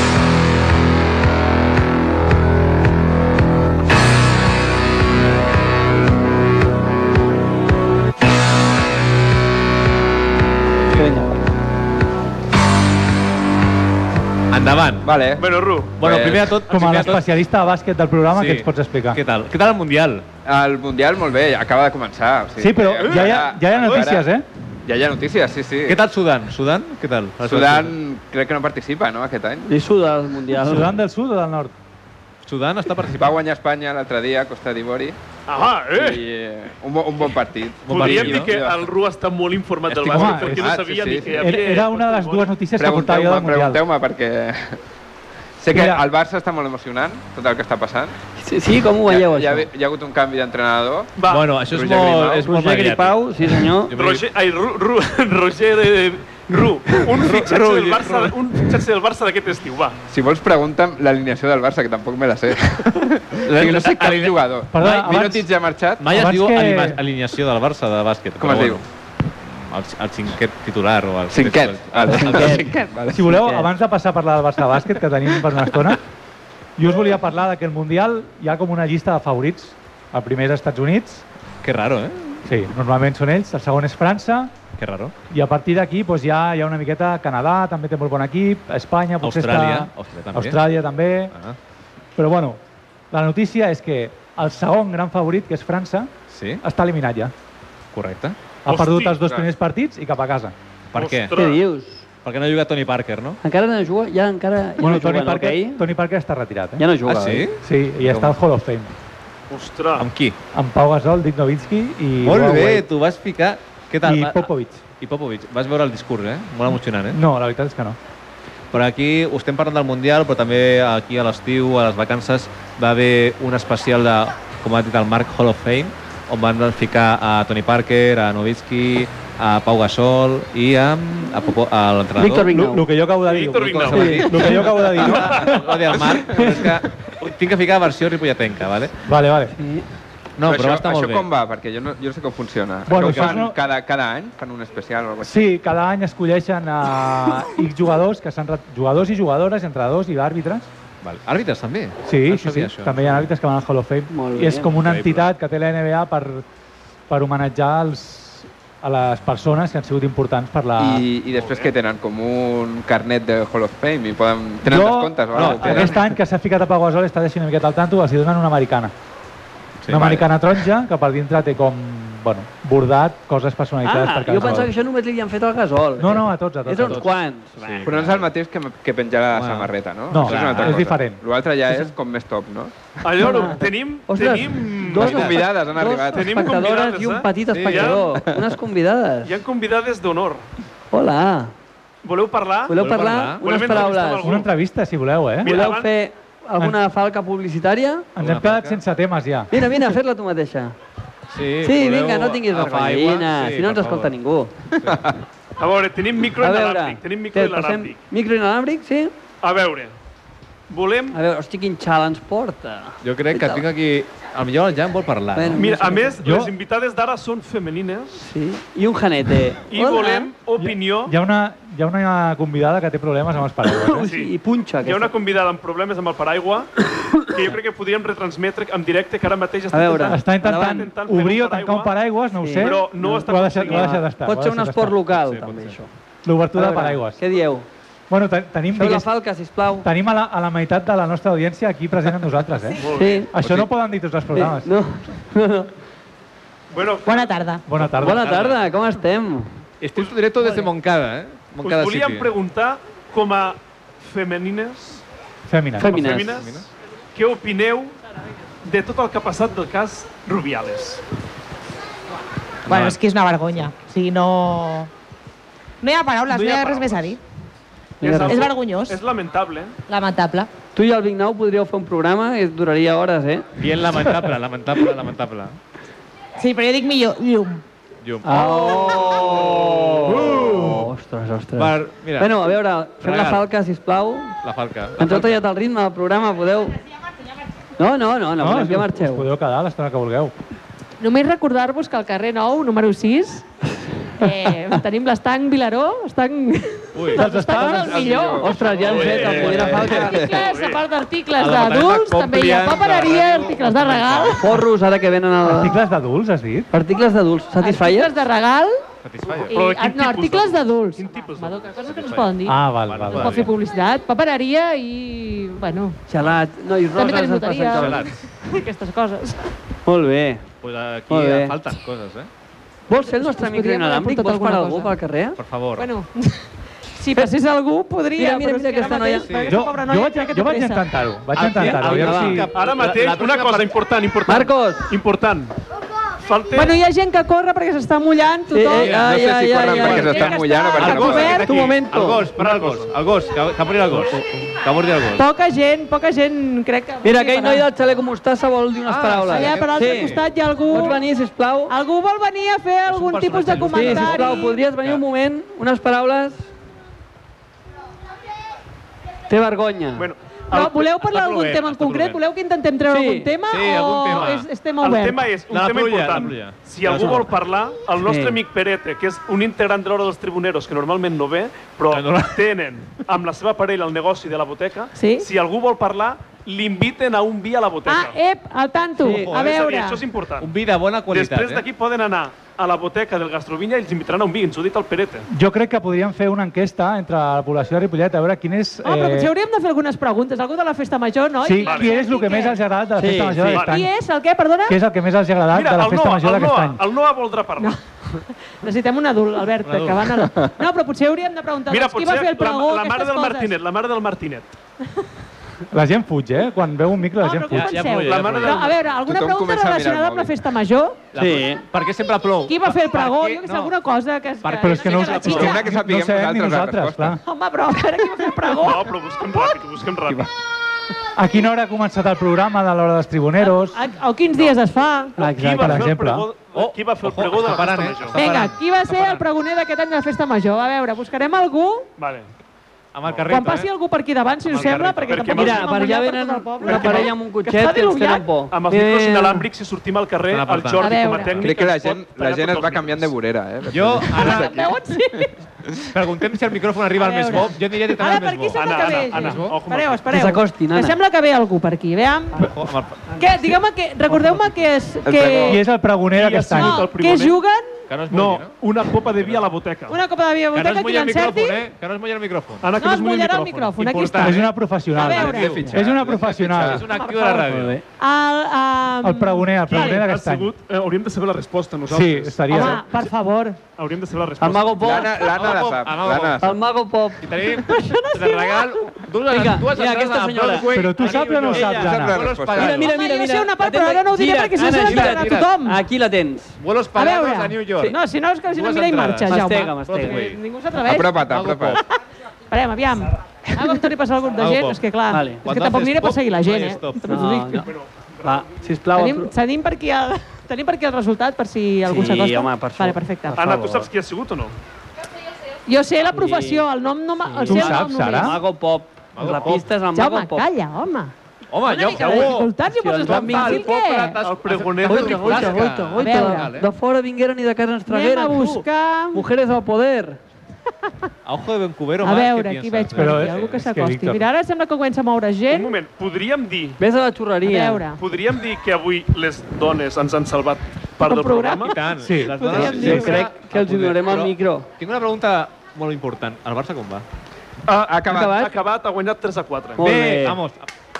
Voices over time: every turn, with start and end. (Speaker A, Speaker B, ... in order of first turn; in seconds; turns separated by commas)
Speaker A: 10.8-11.1, Speaker B: 10.9-11.3, Speaker A: 14.5-15.1, Speaker C: 15.0-16.6, Speaker D: 15.4-16.0, Speaker A: 16.0-17.2, Speaker E: 16.7-19.2, Speaker A: 18.3-20.2, Speaker C: 20.5-24.3, Speaker E: 22.6-24.4, Speaker C: 24.9-26.0, Speaker A: 25.9-27.9, Speaker C: 27.4-29.7, Speaker B: 29.6-30.9, Speaker E: 30.6-31.7, Speaker A: 32.5-33.4, Speaker C: 33.1-35.2, Speaker D: 35.5-36.2, Speaker C: 35.9-38.9, Speaker A: 37.9-38.5, Speaker D: 37.9-42.5, Speaker A: 39.9-40.6, Speaker E: 40.1-40.8, Speaker C: 40.5-41.6, Speaker E: 41.3-43.8, Speaker C: 42.8-44.8, Speaker C: 45.6-48.1, Speaker E: 45.7-46.0, Speaker B: 48.4-49.7, Speaker C: 49.1-51.1, Speaker D: 51.2-51.5, Speaker A: 51.3-54.2, Speaker C: 51.7-52.4, Speaker B: 52.5-53.9, Speaker D: 53.9-60.0, Speaker A: 57.2-58.4, Speaker C: 60.1-66.0, Speaker A: 63.5-64.9, Speaker E: 64.7-65.5, Speaker A: 66.0-68.9, Speaker E: 66.0-67.0, Speaker C: 68.4-68.8, Speaker A: 69.4-72.7, Speaker C: 71.3-73.4, Speaker B: 72.1-72.8, Speaker E: 73.1-76.0, Speaker B: 73.3-73.7, Speaker E: 76.8-81.2, Speaker A: 81.6-82.5, Speaker E: 82.5-84.5, Speaker A: 84.8-85.1, Speaker E: 85.3-91.3, Speaker A: 89.2-90.7, Speaker E: 92.2-92.6, Speaker E: 93.1-97.3, Speaker A: 96.3-96.6, Speaker A: 97.9-98.4, Speaker E: 98.6-100.5, Speaker D: 98.7-99.3, Speaker A: 100.9-101.3, Speaker D: 101.0-101.6, Speaker B: 101.3-102.0, Speaker A: 102.2-103.4, Speaker B: 103.4-105.8, Speaker E: 104.8-106.9, Speaker B: 106.8-107.5, Speaker A: 107.1-108.4, Speaker E: 107.6-108.9, Speaker D: 109.5-110.1, Speaker A: 110.0-110.4, Speaker E: 110.5-112.9, Speaker A: 112.2-117.2, Speaker E: 114.0-114.8, Speaker E: 117.1-118.0, Speaker A: 118.7-132.5, Speaker B: 132.2-132.9, Speaker E: 132.4-135.7, Speaker D: 133.3-135.6, Speaker A: 133.7-138.9, Speaker B: 133.9-134.6, Speaker E: 139.0-139.6, Speaker B: 139.6-139.8, Speaker A: 140.4-141.3, Speaker C: 140.5-145.5, Speaker E: 142.9-143.6, Speaker A: 142.9-143.5, Speaker E: 145.2-150.7, Speaker A: 151.0-153.3, Speaker E: 152.1-156.4, Speaker B: 154.1-154.7, Speaker A: 154.8-155.3, Speaker E: 157.1-161.1, Speaker C: 160.8-166.0, Speaker D: 161.4-161.7, Speaker E: 164.6-168.9, Speaker A: 165.3-166.1, Speaker A: 169.8-170.3, Speaker E: 169.9-174.7, Speaker B: 173.8-177.9, Speaker E: 176.0-177.0, Speaker A: 176.8-178.3, Speaker C: 177.8-182.7, Speaker A: 179.3-181.0, Speaker E: 180.1-181.2, Speaker D: 183.0-185.1, Speaker B: 183.2-189.4, Speaker C: 184.9-186.5, Speaker A: 185.0-185.5, Speaker D: 186.1-188.2, Speaker A: 187.5-188.0, Speaker D: 189.2-190.5, Speaker B: 190.9-191.5, Speaker D: 192.0-192.8, Speaker B: 192.7-194.3, Speaker A: 192.8-193.9, Speaker D: 193.4-194.5, Speaker E: 194.2-195.5, Speaker D: 195.4-195.9, Speaker B: 195.4-198.1, Speaker E: 198.2-199.6, Speaker A: 198.2-198.8, Speaker B: 199.5-200.8, Speaker A: 201.3-204.1, Speaker B: 201.6-204.5, Speaker A: 204.8-205.0, Speaker D: 205.6-208.0, Speaker B: 206.4-209.1, Speaker D: 209.4-209.9, Speaker D: 210.7-211.2, Speaker B: 211.1-213.6, Speaker A: 213.0-215.6, Speaker B: 215.3-216.2, Speaker D: 215.6-218.2, Speaker E: 216.2-216.5, Speaker B: 218.2-220.3, Speaker D: 219.7-221.1, Speaker E: 220.6-224.1, Speaker B: 223.8-225.1, Speaker D: 224.1-226.7, Speaker D: 227.3-231.9, Speaker B: 229.7-230.9, Speaker E: 230.1-235.0, Speaker B: 232.4-235.9, Speaker D: 232.6-234.0, Speaker A: 235.2-235.8, Speaker E: 236.2-237.2, Speaker B: 236.6-237.7, Speaker E: 238.1-239.1, Speaker B: 238.8-239.9, Speaker E: 239.8-244.7, Speaker D: 242.8-243.3, Speaker B: 242.9-243.3, Speaker A: 243.4-243.7, Speaker B: 244.3-245.7, Speaker D: 246.7-247.4, Speaker F: 247.1-247.6, Speaker E: 247.7-248.3, Speaker B: 248.0-249.6, Speaker A: 248.0-248.6, Speaker A: 249.8-252.3, Speaker D: 250.0-250.6, Speaker D: 251.6-255.0, Speaker E: 255.5-255.9, Speaker B: 255.8-256.4, Speaker D: 255.9-257.9, Speaker A: 256.4-256.6, Speaker D: 258.6-261.0, Speaker F: 262.7-264.9, Speaker A: 262.7-263.0, Speaker F: 265.8-267.2, Speaker D: 266.3-267.1, Speaker B: 268.0-268.5, Speaker D: 268.0-269.7, Speaker F: 268.3-269.0, Speaker F: 269.9-270.5, Speaker B: 270.8-273.5, Speaker A: 273.6-275.6, Speaker F: 276.4-277.6, Speaker A: 278.0-280.6, Speaker B: 278.2-284.4, Speaker E: 280.3-280.8, Speaker A: 281.6-283.4, Speaker A: 284.4-285.4, Speaker B: 285.0-286.8, Speaker B: 287.8-289.3, Speaker E: 288.4-290.3, Speaker G: 291.0-293.4, Speaker G: 294.2-298.7, Speaker A: 296.9-297.4, Speaker E: 297.1-298.0, Speaker C: 297.6-300.4, Speaker B: 298.4-300.2, Speaker D: 298.8-300.8, Speaker G: 299.4-304.5, Speaker A: 301.4-304.6, Speaker B: 304.4-305.8, Speaker E: 305.4-306.7, Speaker B: 306.7-308.2, Speaker G: 307.6-308.8, Speaker A: 309.0-309.5, Speaker D: 309.3-311.9, Speaker G: 309.5-316.0, Speaker A: 311.9-313.5, Speaker E: 312.4-313.4, Speaker B: 316.1-318.1, Speaker G: 316.9-319.5, Speaker A: 317.8-318.1, Speaker B: 319.9-320.5, Speaker A: 320.6-322.3, Speaker B: 321.1-321.6, Speaker B: 322.9-325.4, Speaker G: 323.1-324.9, Speaker A: 325.4-325.9, Speaker G: 325.8-330.9, Speaker B: 328.2-329.3, Speaker A: 329.2-329.6, Speaker E: 329.5-332.5, Speaker A: 331.4-333.7, Speaker B: 331.6-332.5, Speaker D: 332.5-335.6, Speaker B: 334.3-334.9, Speaker D: 336.2-336.8, Speaker G: 336.5-339.0, Speaker B: 338.5-340.4, Speaker A: 338.8-339.1, Speaker C: 339.0-341.5, Speaker G: 339.6-341.7, Speaker A: 340.7-345.2, Speaker B: 341.4-342.2, Speaker D: 342.4-342.9, Speaker G: 345.1-347.7, Speaker B: 347.0-350.2, Speaker A: 348.9-350.3, Speaker G: 349.3-351.0, Speaker B: 350.7-351.7, Speaker G: 351.7-354.6, Speaker A: 352.9-355.0, Speaker D: 353.5-354.1, Speaker B: 353.6-356.5, Speaker B: 359.3-360.1, Speaker D: 360.0-360.9, Speaker G: 360.5-365.3, Speaker A: 361.0-362.2, Speaker B: 362.9-363.3, Speaker A: 363.5-364.5, Speaker D: 364.8-378.2, Speaker A: 365.5-367.3, Speaker B: 366.9-367.2, Speaker B: 368.0-368.4, Speaker A: 371.9-372.4, Speaker G: 374.9-375.3, Speaker G: 377.9-380.1, Speaker B: 379.0-379.3, Speaker A: 379.1-379.6, Speaker D: 379.3-380.5, Speaker A: 380.4-381.6, Speaker D: 381.1-385.3, Speaker E: 385.3-389.3, Speaker G: 388.8-392.6, Speaker E: 391.4-393.9, Speaker D: 391.6-391.9, Speaker B: 393.0-393.6, Speaker D: 393.5-393.8, Speaker G: 393.6-394.8, Speaker E: 394.6-396.8, Speaker D: 395.5-397.8, Speaker G: 398.6-403.6, Speaker A: 399.6-400.2, Speaker D: 401.7-404.5, Speaker E: 405.7-407.9, Speaker G: 407.1-411.0, Speaker A: 407.5-408.9, Speaker D: 408.0-408.9, Speaker C: 409.0-410.5, Speaker A: 411.1-413.8, Speaker B: 411.1-411.6, Speaker G: 412.5-415.6, Speaker A: 414.4-415.6, Speaker E: 414.6-417.2, Speaker C: 415.3-417.2, Speaker G: 417.2-419.6, Speaker D: 418.6-420.3, Speaker E: 421.1-423.8, Speaker G: 423.4-425.2, Speaker D: 425.2-428.2, Speaker B: 425.2-425.9, Speaker E: 425.5-426.3, Speaker A: 426.5-429.3, Speaker G: 428.1-431.9, Speaker D: 432.0-432.3, Speaker A: 432.9-433.7, Speaker G: 433.2-438.3, Speaker D: 434.5-435.7, Speaker A: 434.5-435.2, Speaker B: 435.3-439.5, Speaker D: 436.7-437.1, Speaker D: 438.5-443.1, Speaker A: 440.3-441.5, Speaker G: 440.8-441.4, Speaker C: 441.4-444.9, Speaker A: 443.7-444.7, Speaker G: 444.1-445.3, Speaker A: 445.9-449.6, Speaker G: 447.0-452.5, Speaker D: 448.6-450.0, Speaker B: 450.1-451.0, Speaker A: 452.4-453.1, Speaker G: 453.2-455.6, Speaker B: 454.1-454.4, Speaker C: 455.0-455.6, Speaker E: 455.5-456.9, Speaker D: 456.1-457.4, Speaker G: 456.5-457.8, Speaker A: 457.9-458.6, Speaker D: 458.1-460.0, Speaker A: 459.1-459.5, Speaker G: 459.9-461.6, Speaker A: 460.5-462.7, Speaker D: 462.6-463.8, Speaker G: 462.8-465.7, Speaker A: 463.7-467.8, Speaker E: 464.2-466.9, Speaker C: 465.2-466.6, Speaker G: 466.8-470.1, Speaker B: 467.5-467.8, Speaker E: 469.0-470.5, Speaker D: 469.7-472.6, Speaker E: 471.9-472.9, Speaker G: 472.5-473.6, Speaker D: 473.8-474.9, Speaker B: 474.4-475.1, Speaker C: 474.8-476.6, Speaker A: 475.2-476.5, Speaker B: 476.4-477.2, Speaker A: 477.2-482.9, Speaker G: 477.5-478.9, Speaker B: 479.3-480.7, Speaker E: 480.7-482.2, Speaker B: 481.5-481.8, Speaker C: 481.6-482.9, Speaker B: 482.5-486.6, Speaker G: 482.9-485.8, Speaker A: 484.8-485.5, Speaker A: 486.6-487.9, Speaker G: 487.0-491.1, Speaker A: 488.5-491.8, Speaker B: 489.3-490.2, Speaker C: 490.8-491.8, Speaker G: 492.5-497.6, Speaker A: 494.4-494.8, Speaker B: 495.1-495.4, Speaker A: 495.4-497.0, Speaker B: 497.1-497.7, Speaker D: 497.6-498.5, Speaker B: 498.2-499.3, Speaker G: 498.9-503.4, Speaker B: 501.9-503.9, Speaker D: 503.4-504.6, Speaker G: 505.7-508.4, Speaker B: 506.1-506.6, Speaker B: 507.2-510.5, Speaker E: 507.5-508.4, Speaker A: 509.1-509.6, Speaker G: 509.9-514.2, Speaker A: 511.5-516.7, Speaker B: 512.0-513.7, Speaker D: 514.2-515.6, Speaker B: 514.8-520.2, Speaker G: 516.0-516.5, Speaker G: 517.9-519.2, Speaker A: 521.2-523.6, Speaker G: 522.0-525.8, Speaker E: 523.0-524.2, Speaker D: 525.5-526.8, Speaker B: 526.8-527.9, Speaker G: 527.4-528.0, Speaker D: 528.0-531.8, Speaker G: 531.0-531.7, Speaker A: 531.6-537.0, Speaker E: 532.0-533.0, Speaker G: 532.4-533.3, Speaker B: 532.5-534.6, Speaker D: 537.7-539.9, Speaker C: 537.9-538.5, Speaker B: 538.1-538.6, Speaker B: 539.8-540.4, Speaker A: 539.8-540.7